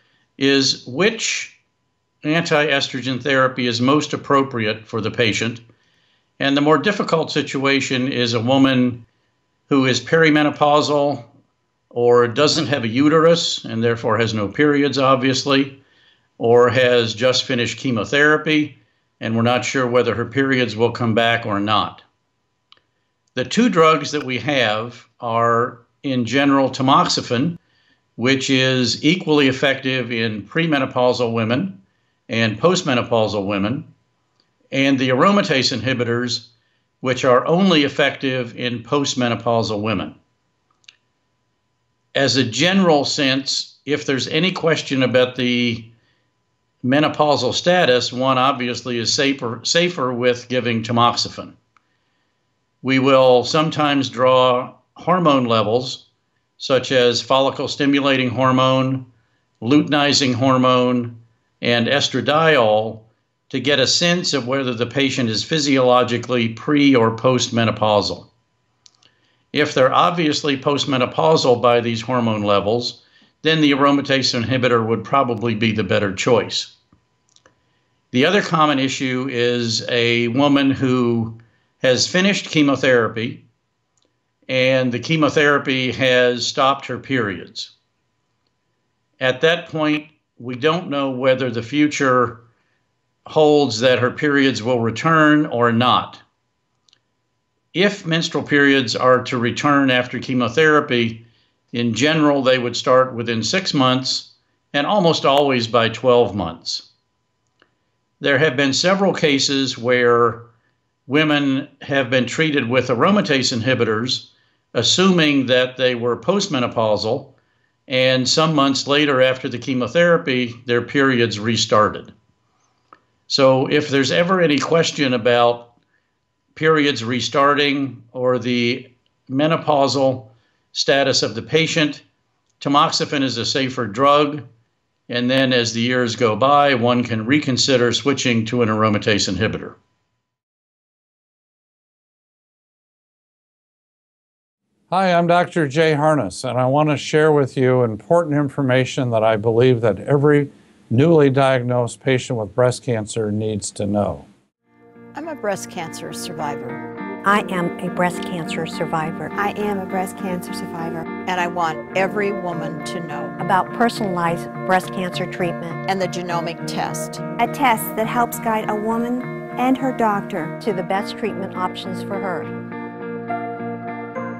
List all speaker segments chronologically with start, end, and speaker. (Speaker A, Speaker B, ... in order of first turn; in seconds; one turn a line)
Speaker A: 0.4-1.6
Speaker A: 2.2-5.6
Speaker A: 6.4-9.0
Speaker A: 9.7-11.3
Speaker A: 11.9-15.8
Speaker A: 16.4-22.0
Speaker A: 23.3-27.6
Speaker A: 28.2-33.9
Speaker A: 34.7-36.5
Speaker A: 37.0-40.1
Speaker A: 42.1-45.9
Speaker A: 46.8-51.6
Speaker A: 52.8-56.0
Speaker A: 56.6-59.0
Speaker A: 59.6-68.3
Speaker A: 69.5-76.7
Speaker A: 78.1-83.4
Speaker A: 84.5-87.7
Speaker A: 89.2-92.4
Speaker A: 93.2-96.2
Speaker A: 97.7-106.9
Speaker A: 108.2-110.5
Speaker A: 111.0-117.3
Speaker A: 117.9-122.1
Speaker A: 123.3-125.7
Speaker A: 126.5-132.0
Speaker A: 132.6-134.4
Speaker A: 135.1-139.8
Speaker B: 144.9-154.3
Speaker C: 155.1-156.8
Speaker D: 157.2-159.3
Speaker E: 159.3-161.1
Speaker C: 161.2-163.4
Speaker D: 163.4-165.8
Speaker C: 165.8-167.2
Speaker E: 167.3-170.6
Speaker D: 170.6-172.5